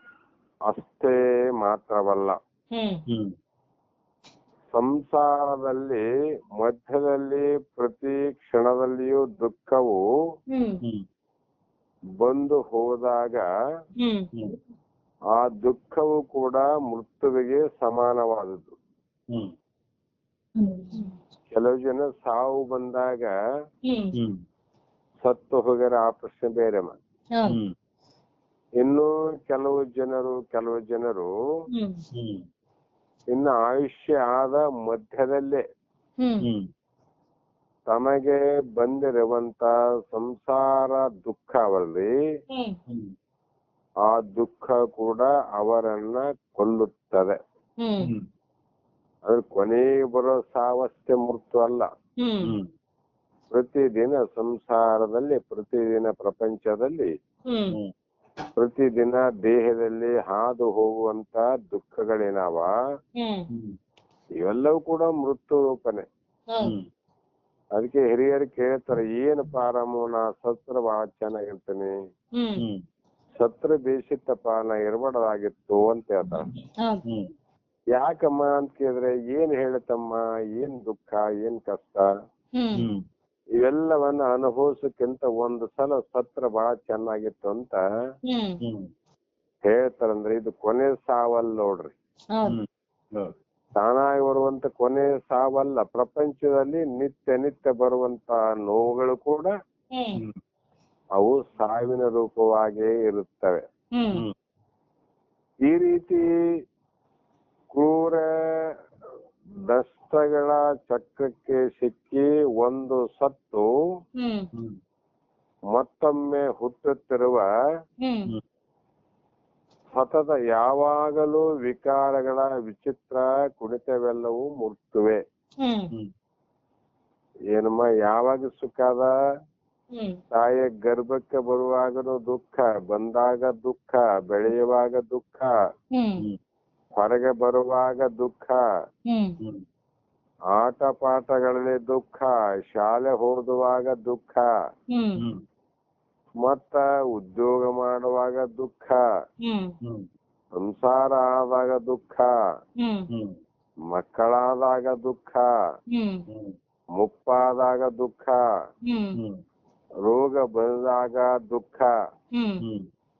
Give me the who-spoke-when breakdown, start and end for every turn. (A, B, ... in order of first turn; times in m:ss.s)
0:00.7-0:02.4 A
0:02.7-0:03.0 B
0:03.1-0:03.3 C
0:04.7-0:06.0 A
0:06.6-0:10.0 A
0:10.5-0:10.8 B
0:12.2-0:13.4 A
0:14.0-0:14.3 B
0:15.3-0:18.8 A
0:20.6-0:21.1 B
0:21.5-0:23.3 A
0:23.8-0:24.1 B
0:24.1-0:24.4 C
0:25.2-0:27.0 A
0:27.5-0:27.7 C
0:28.8-0:31.3 A
0:31.7-0:32.0 B
0:32.1-0:32.4 C
0:33.3-0:35.6 A
0:36.2-0:36.5 B
0:36.4-0:36.7 C
0:37.9-0:42.1 A
0:42.5-0:42.8 B
0:44.1-0:47.4 A
0:47.8-0:48.1 B
0:49.2-0:51.9 A
0:52.2-0:52.5 B
0:52.4-0:52.7 C
0:53.5-0:57.1 A
0:57.5-0:57.8 B
0:58.6-1:02.7 A
1:03.2-1:03.5 B
1:04.4-1:06.1 A
1:06.5-1:06.7 B
1:06.6-1:06.9 C
1:07.8-1:11.9 A
1:12.4-1:12.6 B
1:12.6-1:12.8 C
1:13.4-1:16.5 A
1:17.9-1:22.1 A
1:22.5-1:22.8 B
1:22.8-1:23.0 C
1:23.6-1:27.8 A
1:28.3-1:28.6 B
1:28.6-1:28.9 C
1:29.6-1:31.9 A
1:32.3-1:32.6 B
1:32.4-1:33.3 C
1:33.8-1:39.5 A
1:39.9-1:40.2 B
1:41.2-1:43.6 A
1:44.0-1:44.2 B
1:45.7-1:46.3 A
1:47.7-1:48.7 A
1:49.7-1:53.7 A
1:54.2-1:54.5 B
1:55.7-1:57.5 A
1:58.0-1:58.3 B
1:59.9-2:05.2 A
2:05.6-2:05.9 B
2:07.5-2:09.1 A
2:09.9-2:10.2 B
2:10.3-2:15.5 A
2:15.9-2:16.2 B
2:17.0-2:18.6 A
2:19.1-2:19.4 B
2:20.6-2:24.5 A
2:24.9-2:25.2 B
2:26.4-2:29.0 A
2:29.4-2:29.7 B
2:30.6-2:32.3 A
2:32.8-2:33.1 B
2:33.1-2:33.4 C
2:33.9-2:35.5 A
2:35.9-2:36.2 B
2:36.3-2:36.6 C
2:37.0-2:38.4 A
2:38.9-2:39.2 B
2:39.2-2:39.4 C
2:40.0-2:41.9 A
2:42.3-2:42.6 B
2:42.6-2:42.9 C